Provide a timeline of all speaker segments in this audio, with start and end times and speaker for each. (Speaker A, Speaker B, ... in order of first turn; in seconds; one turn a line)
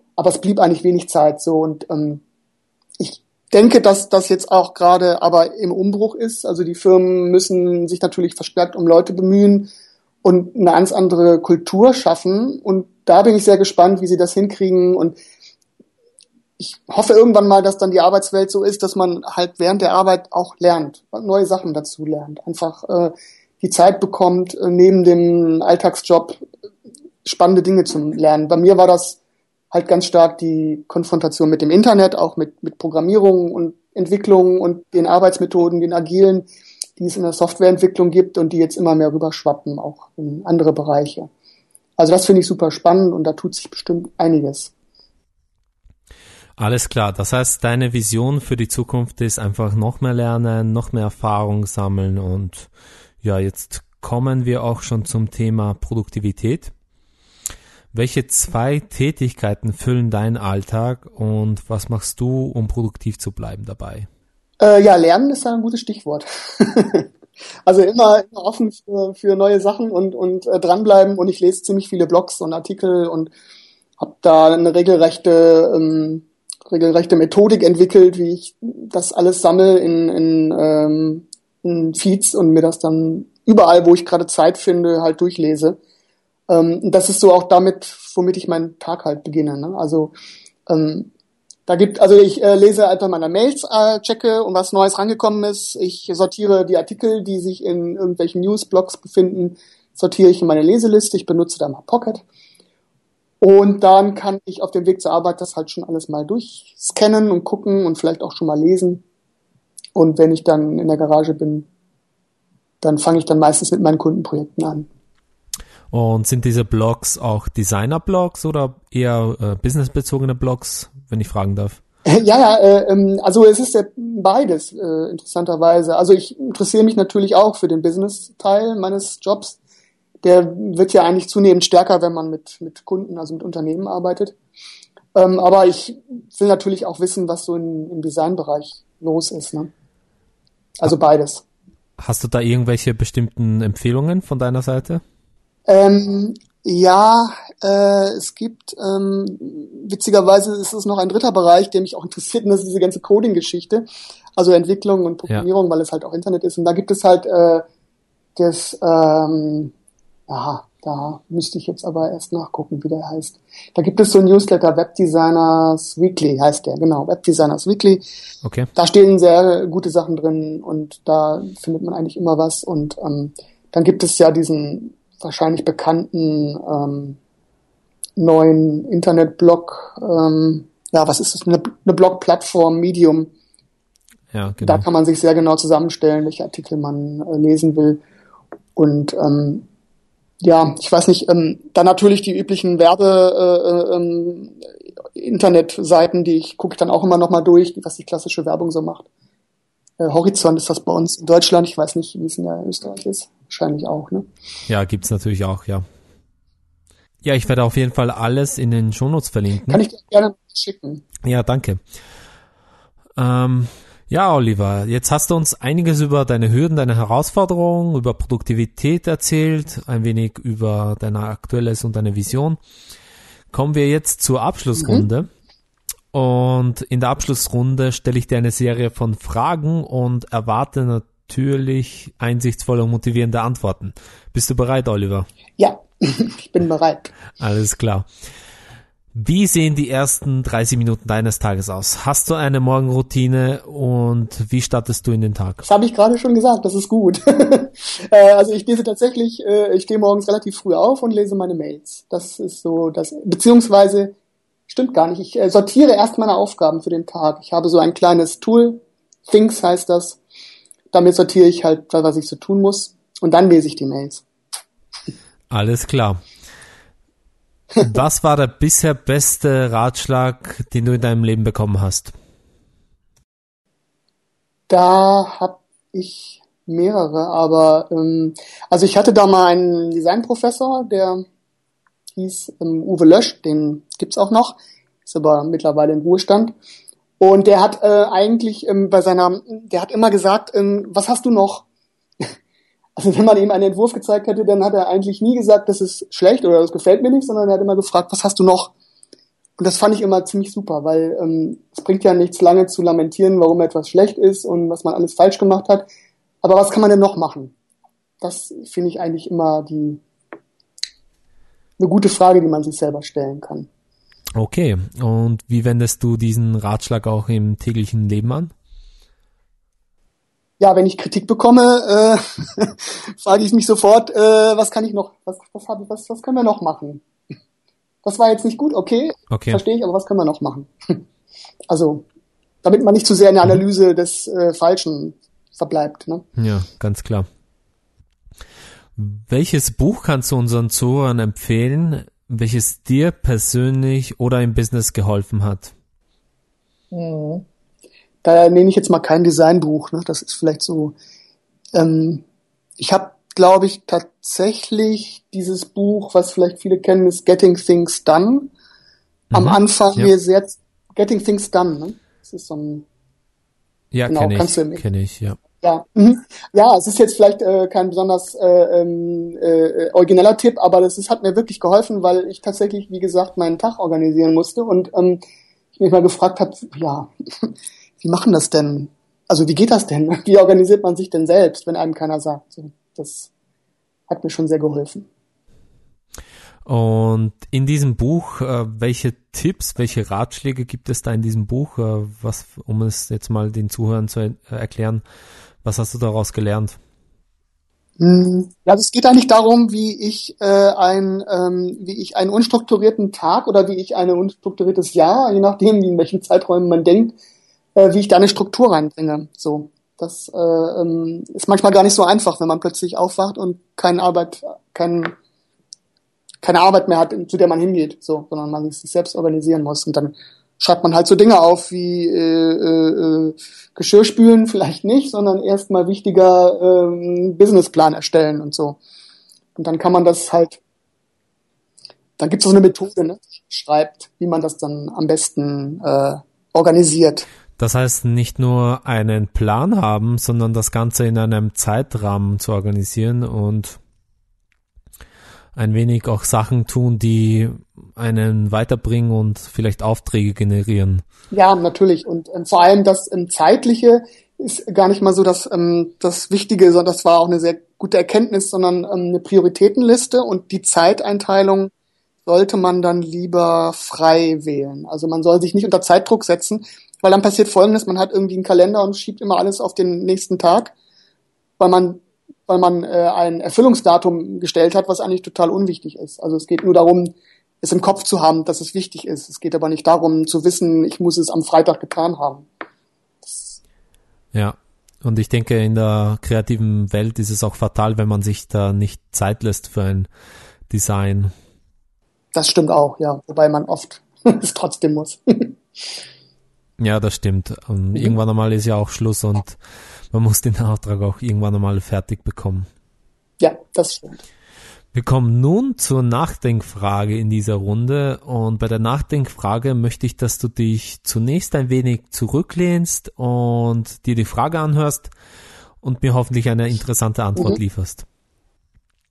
Speaker A: 0.2-2.2
Speaker A: 3.0-9.7
Speaker A: 10.2-15.2
Speaker A: 16.6-26.4
Speaker A: 27.2-29.2
Speaker A: 29.7-36.5
Speaker A: 37.0-41.3
Speaker A: 42.0-44.7
Speaker B: 46.6-52.7
Speaker B: 53.2-56.7
Speaker B: 57.9-64.1
Speaker A: 64.6-67.1
Speaker A: 67.7-73.3
Speaker A: 74.0-85.8
Speaker A: 86.5-90.2
Speaker A: 90.7-91.1
Speaker A: 91.7-102.2
Speaker A: 103.4-109.0
Speaker A: 110.0-111.7
Speaker A: 112.8-114.9
Speaker B: 115.9-121.8
Speaker A: 122.1-129.6
Speaker A: 130.2-134.4
Speaker A: 135.2-139.7
Speaker A: 140.8-141.4
Speaker B: 142.0-145.0
Speaker A: 145.7-157.6
Speaker A: 158.4-159.7
Speaker A: 160.3-168.0
Speaker B: 168.4-168.7
Speaker A: 168.8-177.2
Speaker A: 178.2-183.3
Speaker B: 184.3-184.8
Speaker A: 184.6-188.0
Speaker A: 188.8-189.7
Speaker A: 190.4-199.1
Speaker A: 200.0-204.3
Speaker B: 204.7-205.8
Speaker B: 207.2-209.8
Speaker A: 209.7-211.0
Speaker B: 211.2-211.8
Speaker B: 213.2-222.6
Speaker B: 223.5-225.3
Speaker A: 224.8-225.1
Speaker B: 226.1-235.3
Speaker A: 235.6-237.2
Speaker B: 237.4-238.1
Speaker B: 239.1-245.7
Speaker A: 245.6-254.2
Speaker A: 254.7-260.2
Speaker A: 260.9-264.2
Speaker B: 265.5-266.2
Speaker B: 267.8-272.1
Speaker A: 274.7-281.2
Speaker A: 282.2-286.6
Speaker A: 287.2-291.6
Speaker A: 293.0-298.7
Speaker A: 299.6-305.9
Speaker A: 306.4-307.5
Speaker A: 308.2-310.0
Speaker A: 311.8-313.7
Speaker B: 314.4-318.5
Speaker A: 320.6-327.0
Speaker A: 328.0-331.0
Speaker B: 329.3-329.6
Speaker A: 331.7-332.1
Speaker A: 332.6-336.2
Speaker B: 336.4-337.3
Speaker B: 339.0-345.7
Speaker A: 346.9-347.4
Speaker A: 348.2-350.9
Speaker A: 351.7-352.2
Speaker A: 352.8-358.5
Speaker B: 359.3-360.1
Speaker A: 359.3-362.9
Speaker B: 363.9-365.4
Speaker A: 364.1-364.8
Speaker A: 365.6-375.2
Speaker A: 375.8-383.3
Speaker A: 384.1-385.1
Speaker B: 386.6-395.0
Speaker B: 395.6-396.8
Speaker A: 398.0-407.2
Speaker A: 407.8-415.1
Speaker A: 416.4-428.8
Speaker A: 429.6-430.6
Speaker A: 432.2-437.3
Speaker B: 437.6-443.8
Speaker B: 445.6-451.0
Speaker A: 451.3-461.7
Speaker A: 462.3-470.7
Speaker A: 471.6-482.5
Speaker A: 483.2-483.6
Speaker B: 484.3-490.1
Speaker B: 490.7-491.3
Speaker A: 492.3-495.6
Speaker B: 496.8-499.6
Speaker B: 500.1-502.7
Speaker A: 503.4-504.2
Speaker B: 504.9-515.1
Speaker B: 515.8-518.1